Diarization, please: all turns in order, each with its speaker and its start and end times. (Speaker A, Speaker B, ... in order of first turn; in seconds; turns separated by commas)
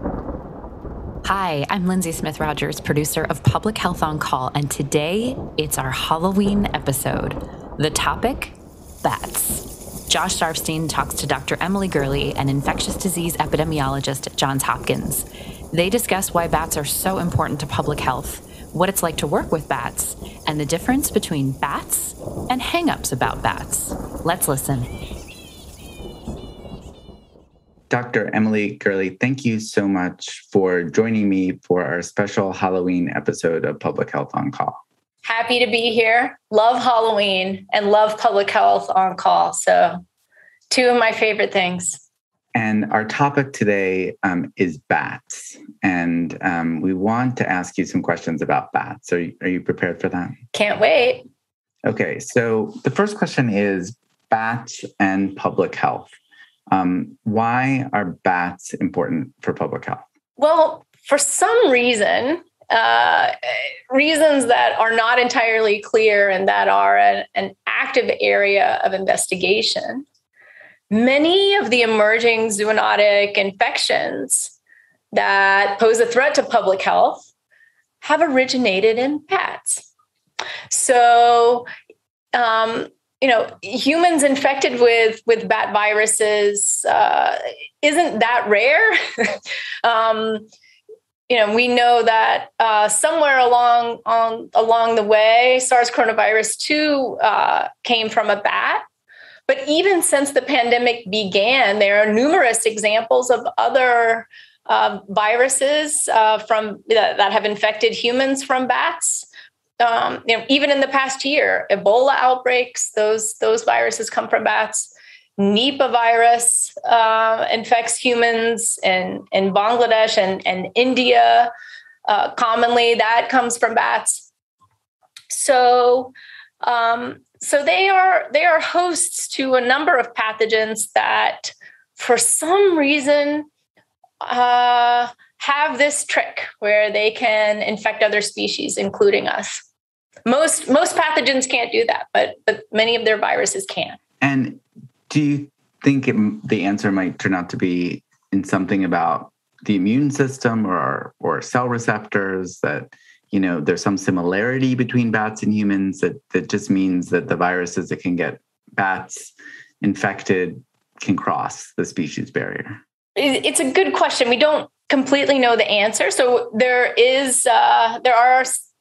Speaker A: 1.2-24.9, Speaker B: 27.9-34.8, Speaker C: 35.2-40.0, Speaker C: 40.7-42.0, Speaker B: 42.5-50.4, Speaker C: 50.5-51.2, Speaker B: 51.8-56.1, Speaker B: 56.7-60.0, Speaker C: 60.4-63.3, Speaker C: 63.9-70.0, Speaker C: 70.9-74.5, Speaker C: 75.1-77.2, Speaker C: 78.0-79.8, Speaker C: 80.7-81.7, Speaker C: 82.3-90.5, Speaker C: 91.3-98.8, Speaker C: 99.5-109.3, Speaker C: 109.8-121.5, Speaker C: 122.1-124.3, Speaker C: 125.3-133.5, Speaker C: 134.2-139.6, Speaker C: 140.2-144.0, Speaker B: 144.2-162.8, Speaker C: 163.2-168.6